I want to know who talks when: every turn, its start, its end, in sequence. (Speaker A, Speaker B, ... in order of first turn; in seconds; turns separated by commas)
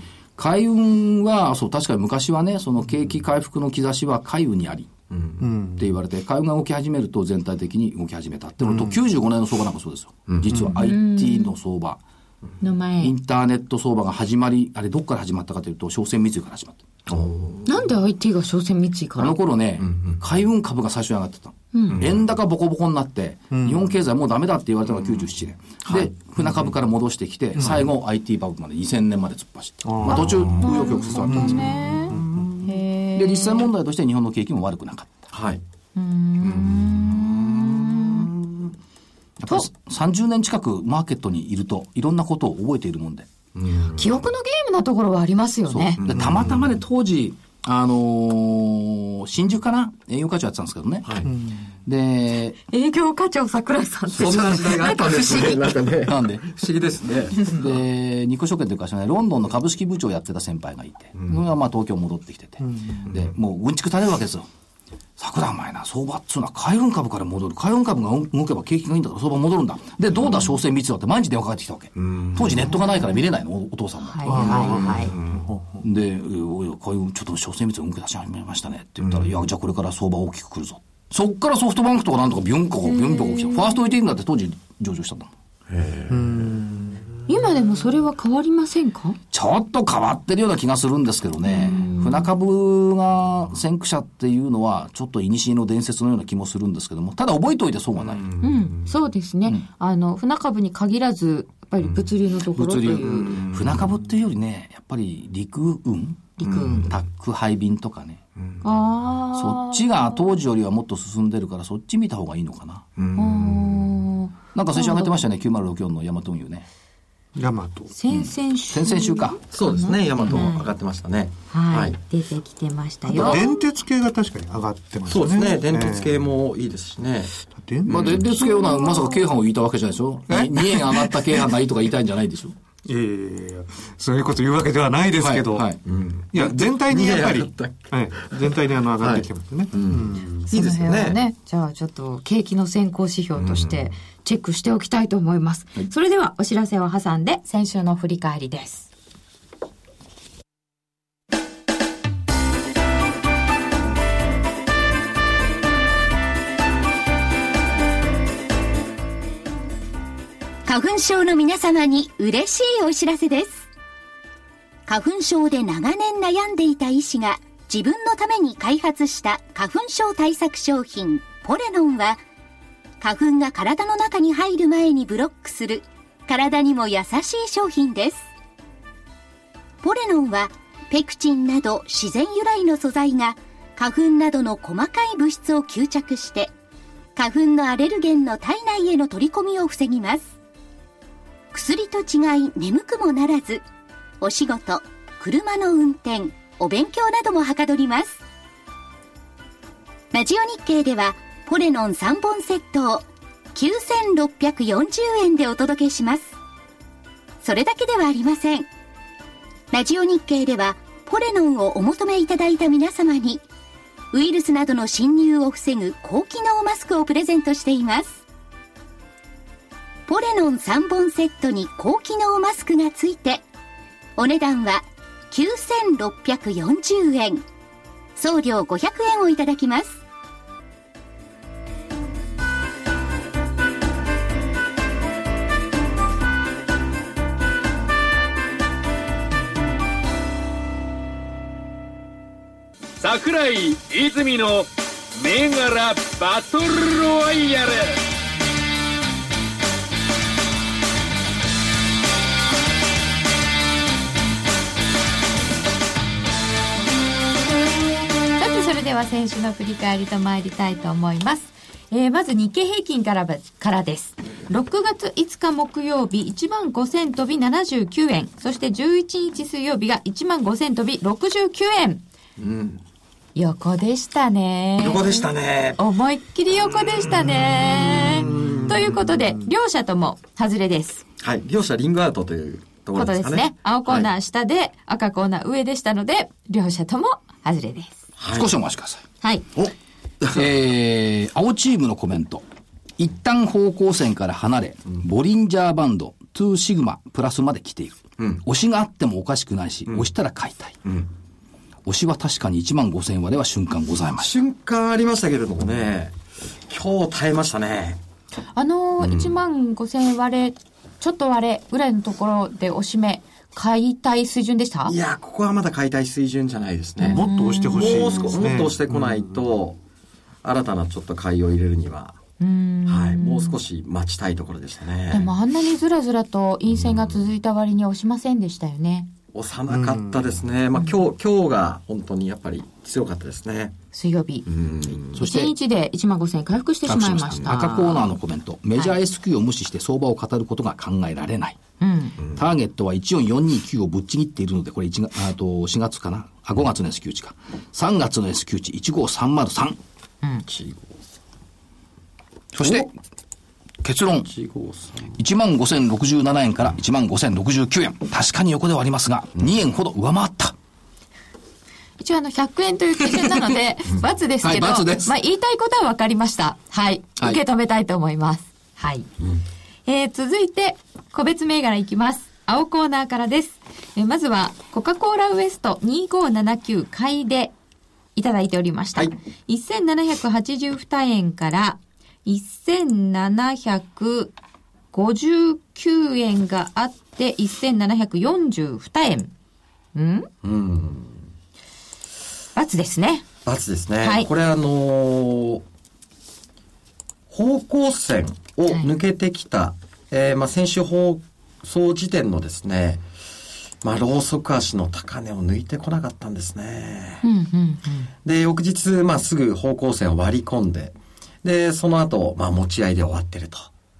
Speaker A: 0.4-4.9, Speaker B: 5.1-5.5, Speaker C: 5.4-5.9, Speaker A: 5.8-12.0, Speaker C: 8.6-8.9, Speaker B: 10.3-10.7, Speaker C: 10.5-10.8, Speaker D: 10.8-11.6, Speaker D: 12.6-13.1, Speaker A: 13.0-16.8, Speaker B: 17.1-17.8, Speaker D: 17.6-19.4, Speaker A: 19.2-31.9, Speaker B: 19.8-20.2, Speaker D: 21.7-22.0, Speaker B: 21.9-22.2, Speaker C: 23.5-23.8, Speaker B: 25.9-26.1, Speaker C: 27.6-27.9, Speaker C: 29.8-32.5, Speaker B: 30.1-30.9, Speaker D: 30.1-33.7, Speaker A: 33.1-35.1, Speaker B: 35.3-35.6, Speaker D: 36.0-38.3, Speaker B: 36.4-38.7, Speaker A: 39.4-43.3, Speaker B: 43.5-44.2, Speaker D: 43.9-46.0, Speaker A: 45.7-51.3, Speaker B: 46.0-46.7, Speaker B: 51.0-51.3, Speaker C: 51.3-51.5, Speaker A: 51.8-52.6, Speaker D: 52.7-55.6, Speaker B: 54.1-57.7, Speaker A: 55.3-56.6, Speaker A: 57.4-64.5, Speaker B: 61.2-61.4, Speaker C: 62.7-63.0, Speaker A: 65.2-74.9, Speaker B: 72.0-72.7, Speaker D: 74.0-75.1, Speaker C: 74.3-75.8, Speaker B: 74.4-75.4, Speaker A: 75.8-85.3, Speaker B: 79.0-79.3, Speaker D: 82.8-83.8, Speaker B: 85.7-86.6, Speaker C: 86.1-87.0, Speaker D: 87.3-89.2, Speaker A: 89.3-98.3, Speaker D: 91.4-92.3, Speaker B: 98.0-98.9, Speaker D: 98.4-103.4, Speaker A: 102.5-108.2, Speaker B: 103.1-103.9, Speaker D: 106.4-106.9, Speaker B: 106.4-107.0, Speaker B: 108.4-108.6, Speaker D: 108.6-110.3, Speaker A: 109.3-112.8, Speaker B: 113.0-113.9, Speaker D: 113.2-115.2, Speaker A: 114.5-116.7, Speaker C: 117.3-117.9, Speaker D: 117.9-120.7, Speaker A: 118.7-119.4, Speaker B: 119.5-122.0, Speaker D: 121.5-123.6, Speaker C: 123.1-126.1, Speaker B: 125.1-127.3, Speaker C: 127.5-128.2, Speaker B: 127.9-128.2, Speaker A: 127.9-132.5, Speaker D: 128.2-129.2, Speaker C: 130.3-131.2, Speaker C: 132.8-135.8, Speaker A: 135.2-135.8, Speaker B: 135.8-141.2, Speaker C: 136.3-140.4, Speaker D: 140.5-148.9, Speaker B: 143.3-143.9, Speaker E: 160.6-163.7, Speaker E: 164.9-172.2, Speaker E: 173.0-178.2, Speaker E: 179.8-186.5, Speaker E: 187.2-190.3, Speaker E: 191.5-193.6, Speaker E: 194.2-198.2, Speaker E: 200.1-206.3, Speaker E: 207.4-208.7, Speaker E: 209.7-213.4, Speaker E: 214.1-218.2, Speaker E: 220.1-223.4, Speaker E: 224.2-227.4, Speaker E: 228.2-230.0, Speaker F: 243.0-248.0, Speaker D: 258.4-272.0, Speaker B: 272.4-272.8, Speaker D: 273.3-281.0, Speaker B: 274.8-275.8, Speaker B: 278.2-278.6, Speaker C: 278.3-278.7, Speaker B: 281.2-284.1, Speaker D: 282.9-288.0, Speaker B: 288.2-288.5, Speaker A: 288.3-289.0, Speaker B: 289.6-290.5, Speaker A: 290.3-292.4, Speaker A: 293.0-300.8, Speaker A: 301.8-304.4, Speaker B: 304.2-306.1, Speaker B: 306.7-308.0, Speaker D: 308.5-314.9, Speaker B: 309.0-309.3, Speaker B: 314.9-319.8, Speaker D: 317.0-318.4, Speaker C: 317.0-318.9, Speaker B: 320.4-322.2, Speaker D: 322.4-323.6, Speaker B: 322.9-325.3, Speaker D: 325.1-329.1, Speaker B: 329.3-333.8, Speaker C: 329.7-330.3, Speaker D: 333.9-334.5, Speaker B: 334.5-335.2, Speaker A: 335.1-335.5, Speaker D: 335.1-338.1, Speaker A: 336.9-341.6, Speaker D: 341.8-342.2, Speaker A: 342.3-349.8, Speaker B: 350.5-350.9, Speaker A: 352.5-352.9, Speaker B: 352.6-352.9, Speaker A: 353.8-354.3, Speaker B: 354.2-355.1, Speaker A: 355.2-360.6, Speaker D: 362.0-369.1, Speaker A: 363.1-363.4, Speaker A: 364.4-365.1, Speaker D: 369.9-377.5, Speaker D: 378.1-384.3, Speaker D: 384.9-389.3, Speaker D: 389.9-390.3, Speaker B: 390.4-391.2, Speaker D: 392.5-393.3, Speaker B: 393.4-395.6, Speaker D: 394.0-394.3, Speaker B: 397.3-403.0, Speaker B: 403.8-407.2, Speaker D: 407.2-408.1, Speaker B: 408.2-413.7